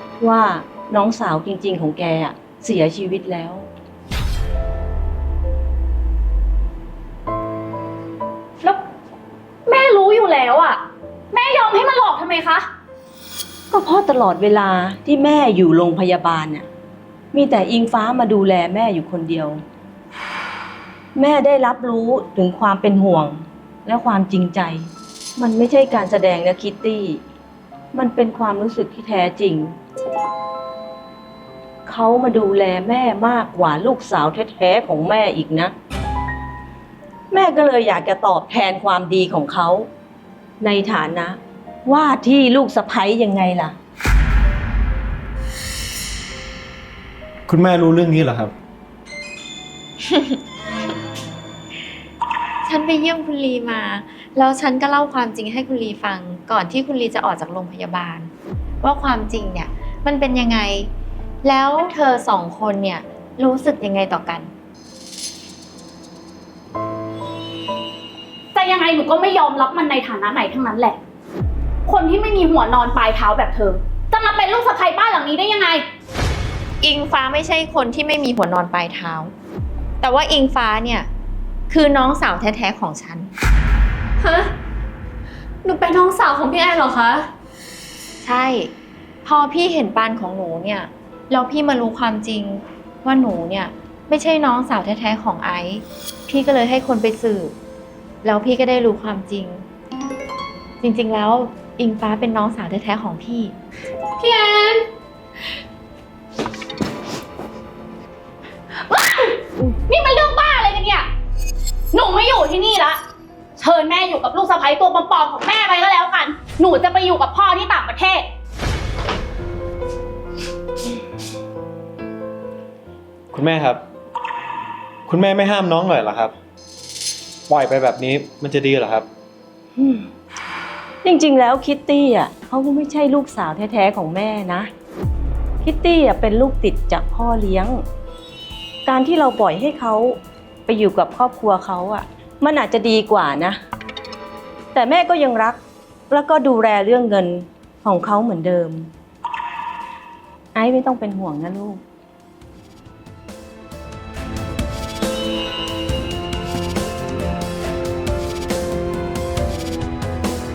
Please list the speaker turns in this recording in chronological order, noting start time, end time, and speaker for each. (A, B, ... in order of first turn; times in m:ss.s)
0:00.2-0:03.7 A
0:09.7-0:12.7 B
0:13.7-0:16.7 A
0:17.3-0:19.6 A
0:21.2-0:27.2 A
0:27.9-0:29.8 A
0:31.9-0:35.7 A
0:37.3-0:39.9 A
0:40.6-0:43.8 A
0:47.5-0:48.5 C
0:50.1-0:50.4 D
0:52.6-0:58.3 D
0:58.8-1:00.9 D
1:01.4-1:04.5 D
1:08.5-1:11.0 B
1:11.9-1:15.8 B
1:16.8-1:19.3 D
1:20.0-1:21.1 D
1:21.7-1:23.3 D
1:24.2-1:24.5 E
1:25.6-1:27.3 E
1:28.2-1:28.7 D
1:29.2-1:37.5 D
1:38.2-1:39.6 D
1:40.8-1:43.6 D
1:44.2-1:44.8 E
1:48.9-1:51.1 B
1:51.9-1:53.0 B
1:53.6-1:58.3 B
2:03.3-2:03.8 C
2:05.1-2:06.3 C
2:07.5-2:09.1 C
2:09.8-2:10.1 A
2:11.0-2:14.7 A
2:15.6-2:17.8 A
2:18.9-2:23.6 A
2:24.7-2:28.9 A
2:30.5-2:31.8 A